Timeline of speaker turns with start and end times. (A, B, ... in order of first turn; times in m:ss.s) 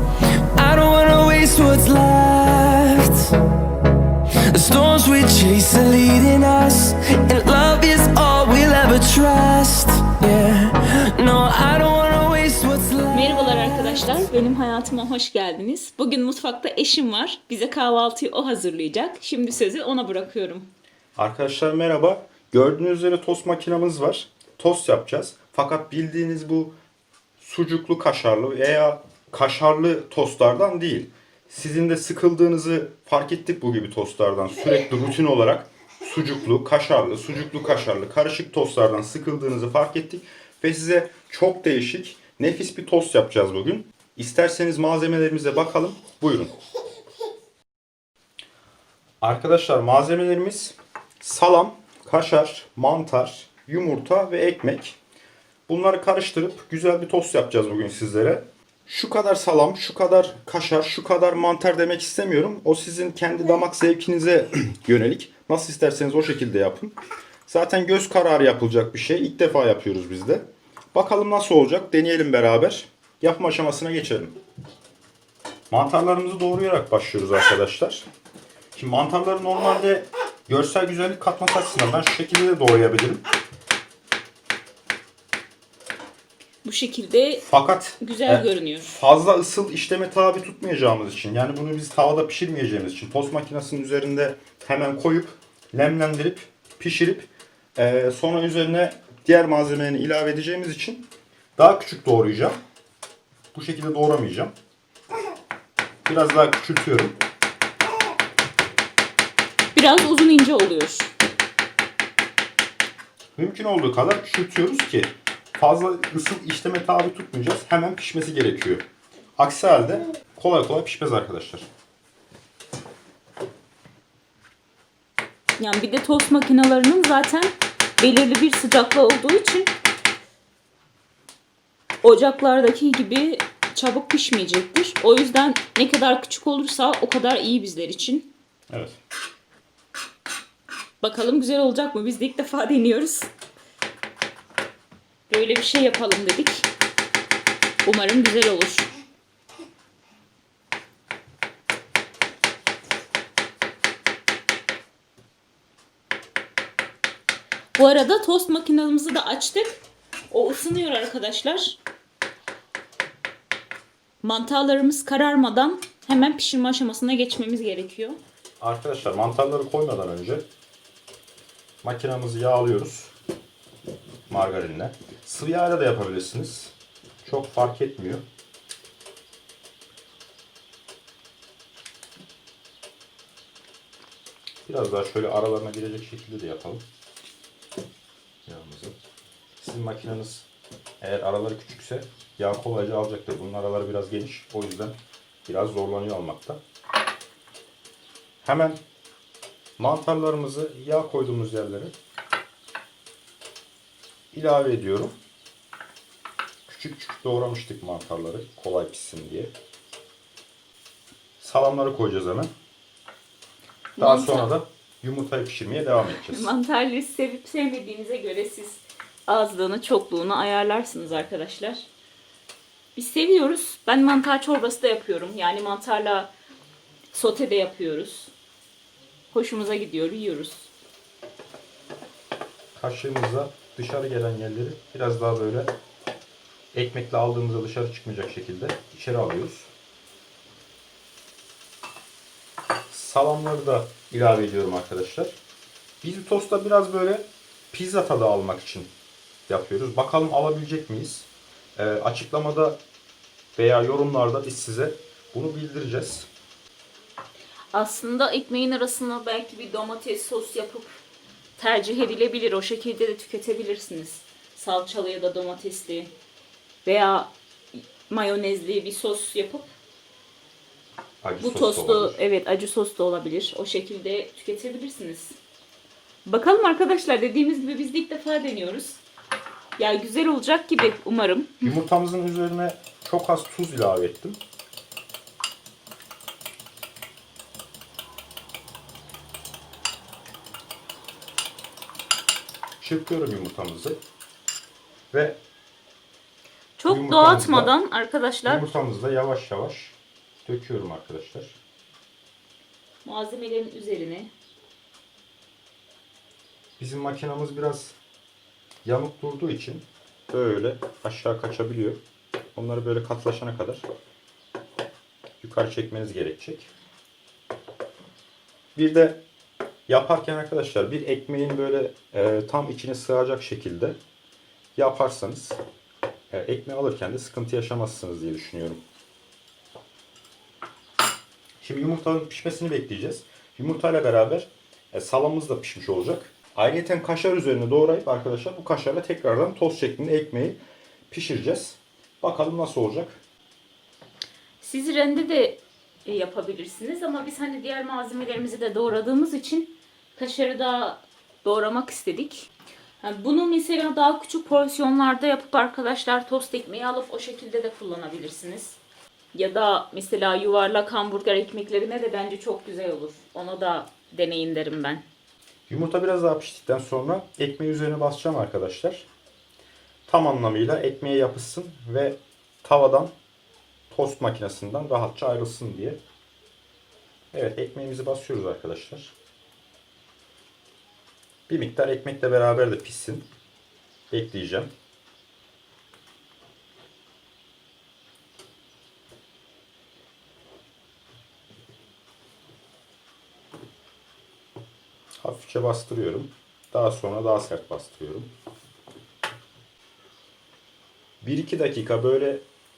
0:00.5-0:03.3 A
0:04.5-0:14.0 A
0:13.1-0:20.7 B
0:21.2-0:26.7 C
0:27.4-0:46.5 C
0:49.2-0:55.0 C
0:55.7-1:14.4 C
1:15.7-1:18.1 C
1:18.7-1:23.2 C
1:26.6-1:27.4 B
1:27.4-1:42.6 C
1:28.0-1:28.9 B
1:43.5-1:44.5 C
1:46.0-1:47.2 C
1:49.7-1:51.1 B
1:53.4-1:58.8 C
1:59.4-2:01.7 C
2:05.6-2:09.7 B
2:12.0-2:18.3 B
2:18.7-2:19.0 C
2:21.0-2:23.3 B
2:25.3-2:26.7 B
2:27.8-2:28.9 B
2:37.8-2:41.8 B
2:44.2-2:48.2 B
2:48.6-2:50.4 C
2:51.8-2:53.1 C
2:54.3-2:58.2 C
3:04.6-3:06.8 C
3:08.4-3:09.0 C
3:09.6-3:10.5 C
3:11.0-3:16.6 C
3:18.4-3:18.8 C
3:19.8-3:21.9 C
3:24.3-3:25.2 C
3:26.7-3:29.5 C
3:31.4-3:32.5 C
3:34.0-3:34.5 B
3:34.0-3:36.5 C
3:36.2-3:41.9 B
3:42.9-3:46.3 B
3:47.1-3:48.3 B
3:49.3-3:50.7 B
3:52.7-3:55.7 C
3:56.7-3:59.7 C
4:02.9-4:05.4 C
4:06.0-4:08.9 C
4:09.5-4:12.8 C
4:13.6-4:16.3 C
4:17.7-4:21.0 B
4:21.6-4:26.1 B
4:26.8-4:29.7 B
4:31.2-4:32.2 C
4:31.4-4:35.4 B
4:36.2-4:39.0 B
4:39.8-4:41.7 B
4:41.6-4:44.4 C
4:52.8-4:54.0 C
4:55.1-4:55.4 C
4:56.8-4:58.7 B
4:56.9-4:57.7 C
4:58.4-5:01.6 C
5:03.0-5:04.3 B
5:06.8-5:08.0 C
5:08.8-5:12.0 C
5:12.5-5:13.8 C
5:15.4-5:16.7 C
5:18.7-5:19.2 C
5:19.9-5:24.0 C
5:24.8-5:25.6 C
5:26.3-5:28.8 C
5:31.6-5:40.6 C
5:41.1-5:43.2 C
5:44.6-5:52.5 B
5:53.0-5:58.8 B
5:59.3-6:05.0 B
6:05.7-6:09.0 C
6:10.1-6:13.1 C
6:13.9-6:16.0 C
6:17.3-6:19.1 C
6:21.5-6:23.2 C
6:24.1-6:24.7 C
6:35.2-6:38.3 C
6:41.2-6:42.4 C